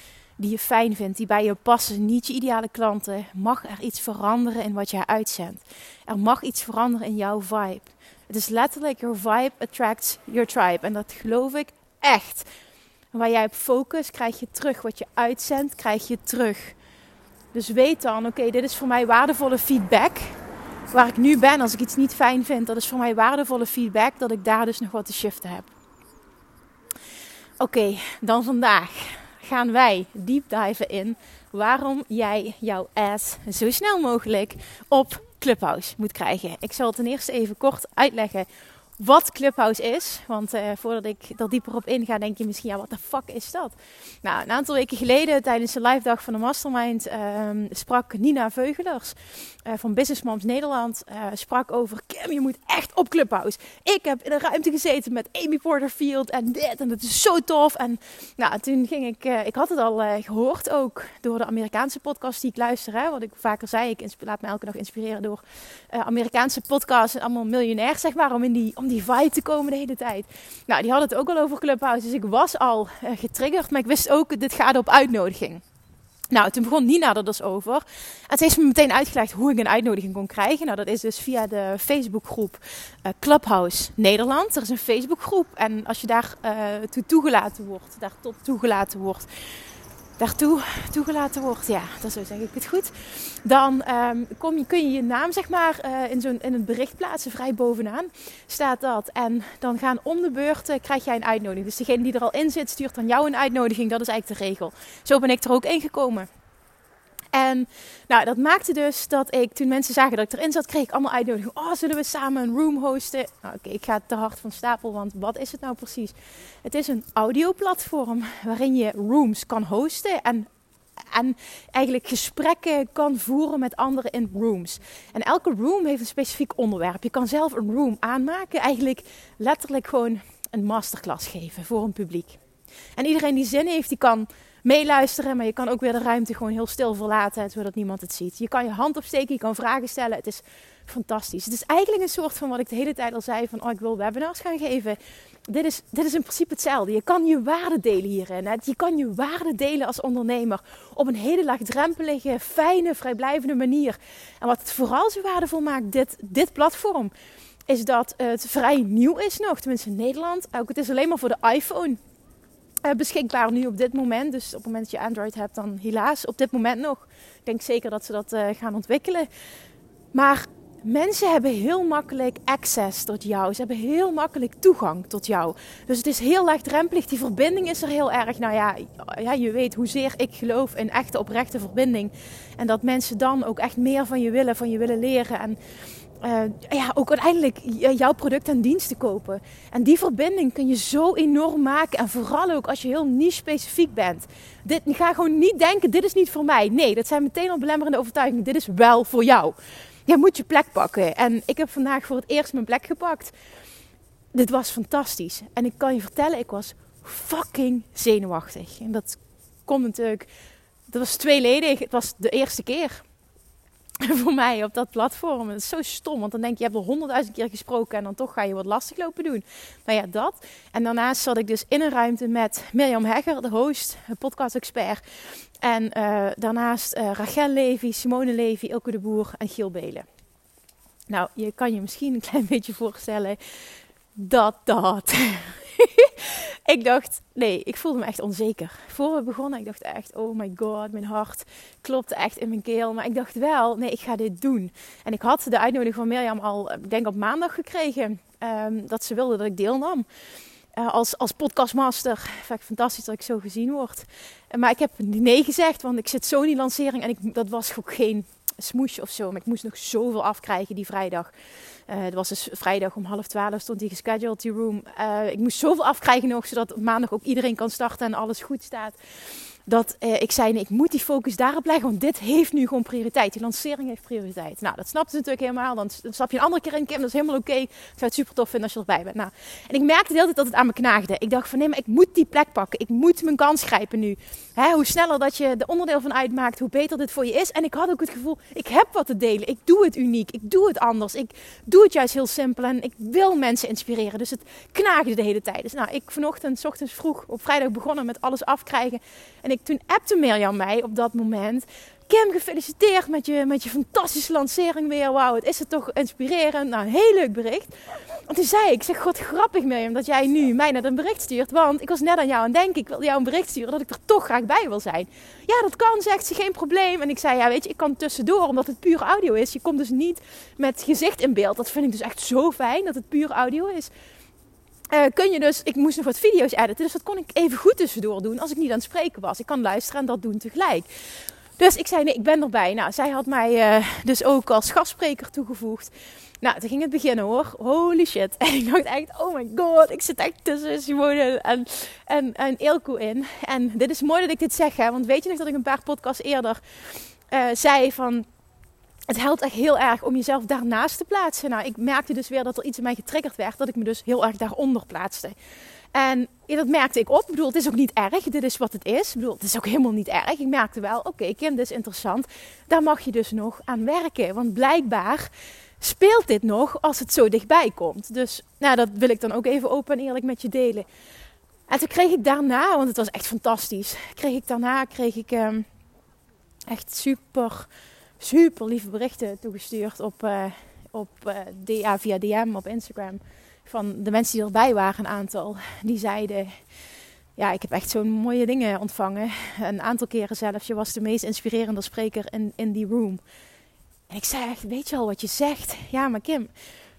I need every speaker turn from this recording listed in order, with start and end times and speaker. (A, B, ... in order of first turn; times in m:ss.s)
0:00.4-0:12.5 A
0:13.1-0:16.8 A
0:17.5-0:20.4 A
0:20.9-0:25.7 A
0:27.6-0:38.5 A
0:39.0-1:15.6 A
1:16.3-1:29.3 A
1:30.2-1:46.3 A
1:47.3-2:00.5 A
2:01.1-2:12.4 A
2:13.0-2:37.1 A
2:37.7-2:42.0 A
2:42.8-2:49.3 A
2:50.1-3:05.6 A
3:06.2-3:19.6 A
3:20.1-3:23.3 A
3:24.3-3:30.3 A
3:30.9-3:33.0 A
3:34.0-3:45.0 A
3:45.6-3:50.1 A
3:51.1-3:53.4 A
3:54.2-4:10.1 A
4:10.8-4:21.3 A
4:21.9-4:29.0 A
4:29.7-5:07.7 A
5:08.3-5:23.9 A
5:24.9-5:30.9 A
5:31.6-5:46.6 A
5:47.3-5:48.3 A
5:49.1-5:55.4 A
5:55.9-6:05.3 A
6:05.8-6:10.9 A
6:11.7-6:15.7 A
6:16.7-6:17.7 A
6:18.2-6:26.5 A
6:27.4-6:33.2 A
6:34.1-6:36.5 A